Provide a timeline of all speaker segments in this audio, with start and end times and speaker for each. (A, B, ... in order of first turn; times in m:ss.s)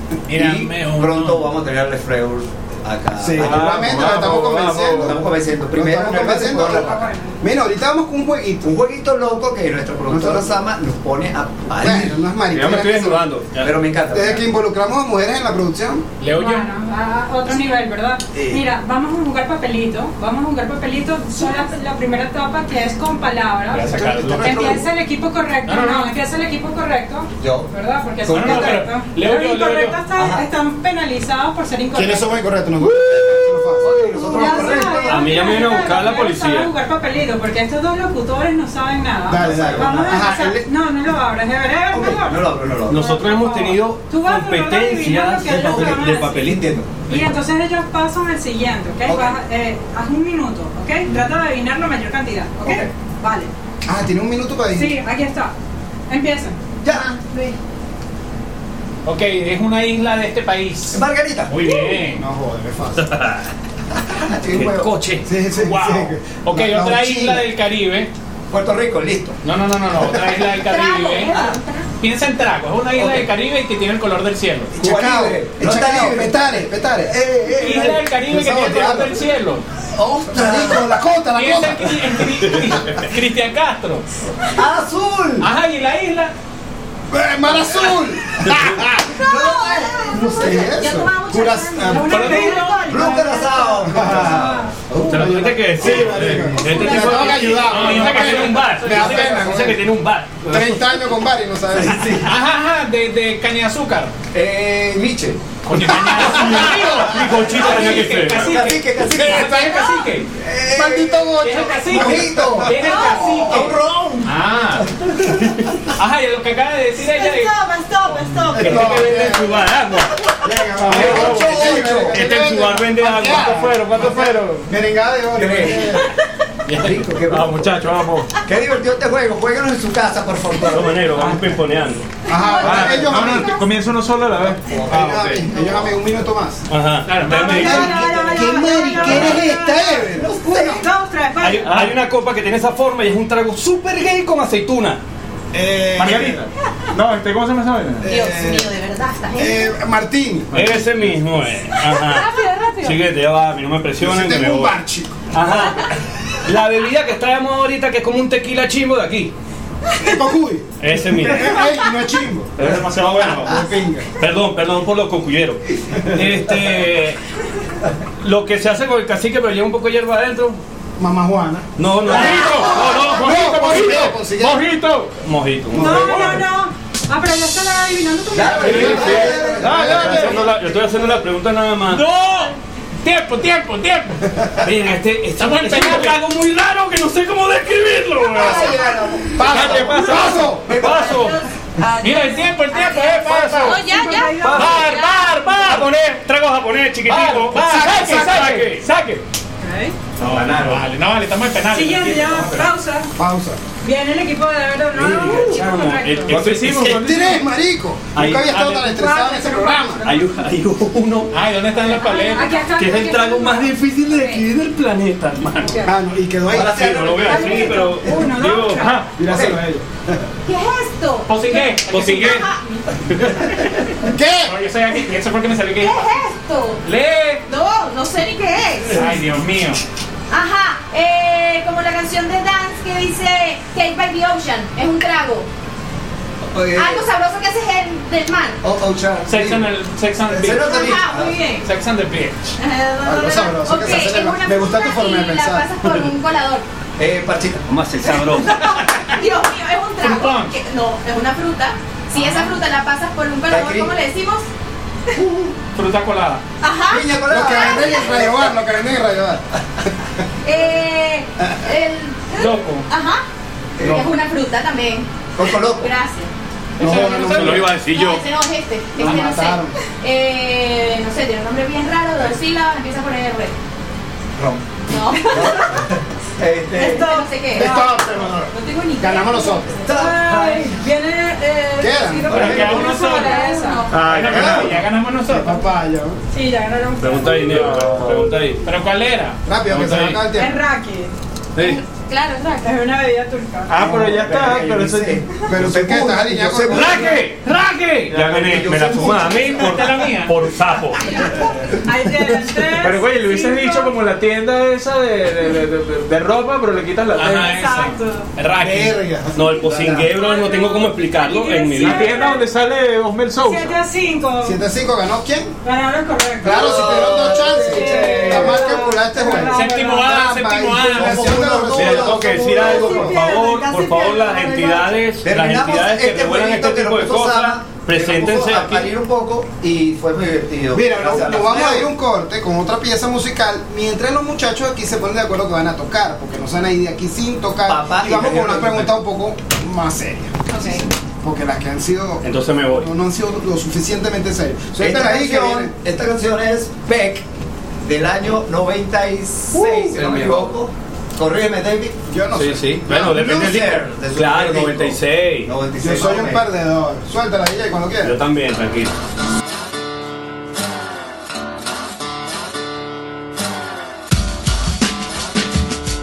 0:00.3-0:01.6 A
0:00.3-0:04.3 B
0:03.2-0:08.7 C
0:03.4-0:05.2 D
0:04.9-0:07.1 B
0:06.7-0:07.4 E
0:08.6-0:12.2 B
0:10.1-0:10.6 C
0:11.8-0:13.3 C
0:12.5-0:13.8 F
0:13.6-0:14.4 B
0:14.1-0:16.0 C
0:16.2-0:16.7 A
0:16.4-0:32.4 E
0:18.4-0:18.6 C
0:21.4-0:21.7 G
0:23.7-0:24.9 C
0:23.8-0:24.5 A
0:25.7-0:26.1 A
0:27.4-0:27.7 B
0:28.3-0:28.9 B
0:28.3-0:30.0 A
0:30.1-0:30.5 B
0:31.9-0:34.9 C
0:33.8-0:35.3 B
0:34.1-0:46.5 E
0:35.0-0:36.7 F
0:39.3-0:40.7 C
0:39.4-0:40.2 B
0:41.9-0:43.2 B
0:42.9-0:47.3 F
0:45.5-0:46.8 B
0:47.1-0:53.5 E
0:49.1-0:49.4 B
0:52.6-0:52.9 B
0:53.9-0:55.0 C
0:54.7-0:55.5 E
0:56.1-0:56.6 E
0:56.8-0:57.1 B
0:56.9-0:57.6 G
0:59.0-1:02.2 A
1:00.9-1:01.6 B
1:01.9-1:03.1 C
1:03.0-1:03.5 F
1:04.1-1:04.9 B
1:04.5-1:05.3 F
1:05.2-1:07.5 C
1:05.5-1:08.1 A
1:08.5-1:10.7 B
1:09.4-1:11.4 A
1:10.6-1:11.9 G
1:11.3-1:11.6 B
1:12.0-1:14.8 A
1:12.9-1:13.3 B
1:14.8-1:19.2 C
1:14.8-1:18.0 B
1:17.6-1:19.6 A
1:19.9-1:21.0 B
1:20.3-1:22.8 C
1:21.3-1:24.0 A
1:24.4-1:25.5 B
1:25.4-1:26.3 A
1:27.1-1:29.3 C
1:27.6-1:27.9 B
1:29.1-1:33.7 G
1:29.2-1:30.6 B
1:30.1-1:32.3 C
1:31.9-1:34.7 E
1:32.1-1:32.8 A
1:32.8-1:37.2 B
1:33.8-1:34.5 C
1:35.1-1:40.8 F
1:35.1-1:39.8 C
1:36.7-1:37.4 E
1:37.1-1:39.5 A
1:40.5-1:42.2 C
1:41.7-1:42.4 B
1:42.2-1:44.1 A
1:44.3-1:55.9 B
1:45.6-1:50.3 A
1:46.1-1:47.0 C
1:46.4-1:48.6 F
1:49.2-1:50.0 C
1:50.7-1:52.9 C
1:51.4-1:54.8 A
1:52.8-1:53.7 G
1:55.9-1:58.9 A
1:57.0-1:58.5 G
1:58.5-1:58.8 B
1:58.5-1:59.8 C
1:58.6-2:00.1 F
2:00.4-2:06.0 C
2:00.5-2:02.2 B
2:00.9-2:01.6 D
2:01.0-2:04.5 F
2:03.5-2:04.4 D
2:05.3-2:06.1 B
2:06.7-2:07.8 B
2:07.3-2:08.4 D
2:08.4-2:11.1 B
2:10.6-2:12.1 F
2:11.2-2:11.5 D
2:12.3-2:13.6 C
2:12.3-2:13.4 G
2:12.6-2:15.3 D
2:14.6-2:16.2 B
2:14.8-2:16.7 C
2:16.7-2:18.0 F
2:17.1-2:17.6 A
2:17.2-2:21.9 E
2:17.3-2:20.4 C
2:18.5-2:19.2 G
2:19.0-2:20.8 B
2:21.4-2:25.0 F
2:21.6-2:21.9 D
2:25.5-2:26.4 C
2:26.0-2:28.1 D
2:28.0-2:28.7 C
2:28.1-2:29.8 G
2:29.3-2:30.7 C
2:30.5-2:34.8 F
2:32.1-2:33.0 E
2:34.0-2:35.2 C
2:35.3-2:39.3 F
2:40.0-2:42.6 C
2:40.8-2:41.6 F
2:42.6-2:43.5 F
2:42.6-2:43.5 D
2:43.4-2:44.1 C
2:44.2-2:47.2 F
2:48.2-2:50.6 F
2:51.0-2:54.7 C
2:51.8-2:53.2 F
2:52.1-2:55.1 D
2:55.2-2:56.4 F
2:55.8-2:59.3 E
2:55.8-2:56.4 B
2:58.3-3:00.4 B
2:58.5-3:02.0 F
2:58.6-3:01.1 C
3:01.9-3:04.2 A
3:04.6-3:08.8 F
3:05.4-3:06.2 A
3:08.3-3:10.7 C
3:08.4-3:11.4 B
3:08.5-3:08.7 G
3:09.5-3:11.4 F
3:09.5-3:10.2 D
3:11.1-3:15.3 G
3:12.0-3:13.9 A
3:13.3-3:13.8 F
3:13.8-3:14.7 E
3:14.4-3:18.8 F
3:14.5-3:16.1 A
3:17.1-3:18.8 D
3:17.2-3:19.2 A
3:17.5-3:18.6 C
3:19.6-3:20.0 E
3:20.2-3:20.9 B
3:20.2-3:22.7 A
3:21.7-3:23.1 E
3:23.2-3:23.6 C
3:23.8-3:26.5 E
3:24.9-3:27.2 F
3:26.3-3:27.4 D
3:26.8-3:30.1 C
3:28.2-3:28.8 F
3:28.8-3:30.0 E
3:30.0-3:31.3 F
3:31.3-3:32.5 A
3:31.8-3:32.7 G
3:32.3-3:33.8 E
3:32.8-3:35.8 F
3:34.1-3:34.4 G
3:35.6-3:35.9 E
3:35.8-3:37.5 C
3:36.5-3:37.8 B
3:36.5-3:39.0 F
3:37.2-3:39.1 E
3:39.2-3:40.2 C
3:39.2-3:39.6 B
3:40.5-3:42.8 G
3:41.3-3:42.5 A
3:41.9-3:42.4 F
3:44.0-3:44.6 C
3:44.4-3:46.2 A
3:45.8-3:46.8 G
3:46.8-3:47.4 A
3:47.5-3:49.0 G
3:48.9-3:49.8 A
3:50.3-3:55.5 G
3:56.5-3:57.0 B
3:56.8-3:58.6 G
3:58.6-4:01.4 B
3:59.3-4:01.0 A
4:00.6-4:01.6 G
4:01.6-4:02.4 A
4:02.6-4:06.6 G
4:03.0-4:05.7 C
4:07.0-4:07.6 B
4:07.7-4:08.6 F
4:08.5-4:14.5 G
4:10.0-4:10.5 A
4:12.2-4:12.5 A
4:13.5-4:13.9 B
4:15.2-4:15.5 B
4:15.7-4:16.4 A
4:16.6-4:17.9 G
4:16.9-4:18.5 B
4:17.3-4:19.4 C
4:20.4-4:23.2 G
4:21.4-4:21.7 C
4:22.4-4:22.9 A
4:23.8-4:24.1 B
4:23.8-4:25.1 G
4:25.4-4:25.9 B
4:25.8-4:26.3 G
4:26.8-4:27.7 C
4:26.8-4:27.8 A
4:27.1-4:28.2 F
4:27.5-4:27.8 D
4:27.9-4:33.5 G
4:29.0-4:29.8 C
4:34.4-4:34.6 D
4:34.9-4:35.6 G
4:35.3-4:37.1 B
4:36.8-4:39.9 G
4:36.8-4:37.9 E
4:37.5-4:39.7 C
4:38.6-4:43.9 E
4:39.8-4:40.8 B
4:41.8-4:42.9 C
4:42.3-4:42.8 B
4:42.4-4:43.3 A
4:42.6-4:44.0 G
4:43.9-4:44.8 F
4:44.0-4:45.6 A
4:44.1-4:44.4 D
4:44.3-4:46.2 C
4:46.3-4:47.9 E
4:47.0-4:48.6 F
4:47.5-4:48.2 D
4:48.6-4:50.2 A
4:49.5-4:50.5 C
4:50.2-4:51.1 E
4:51.6-4:51.8 F
4:51.6-4:52.8 G
4:52.6-4:53.9 E
4:53.7-4:55.2 D
4:53.8-4:57.2 B
4:55.5-4:57.2 C
4:56.8-4:58.7 A
4:56.8-4:57.3 F
4:58.1-5:01.0 F
4:58.1-4:59.6 B
4:59.4-5:00.4 A
5:01.1-5:04.0 E
5:02.7-5:07.7 D
5:07.2-5:09.0 A
5:07.2-5:08.3 E
5:08.6-5:09.6 C
5:09.3-5:12.3 F
5:09.5-5:10.1 B
5:10.1-5:12.5 E
5:11.8-5:13.8 D
5:13.4-5:14.6 E
5:14.4-5:15.6 C
5:15.6-5:20.2 E
5:16.4-5:23.2 C
5:16.4-5:18.8 B
5:19.5-5:21.3 A
5:20.9-5:23.1 B
5:21.5-5:28.9 F
5:22.5-5:24.9 E
5:25.2-5:31.9 B
5:30.7-5:45.7 C
5:37.6-5:38.9 B
5:40.5-5:40.8 G
5:42.2-5:42.9 F
5:44.8-5:47.2 B
5:47.8-5:52.0 B
5:49.5-5:50.5 F
5:52.1-5:52.7 C
5:52.3-5:55.5 F
5:52.9-5:56.5 B
5:55.8-5:58.2 C
5:58.0-5:58.9 F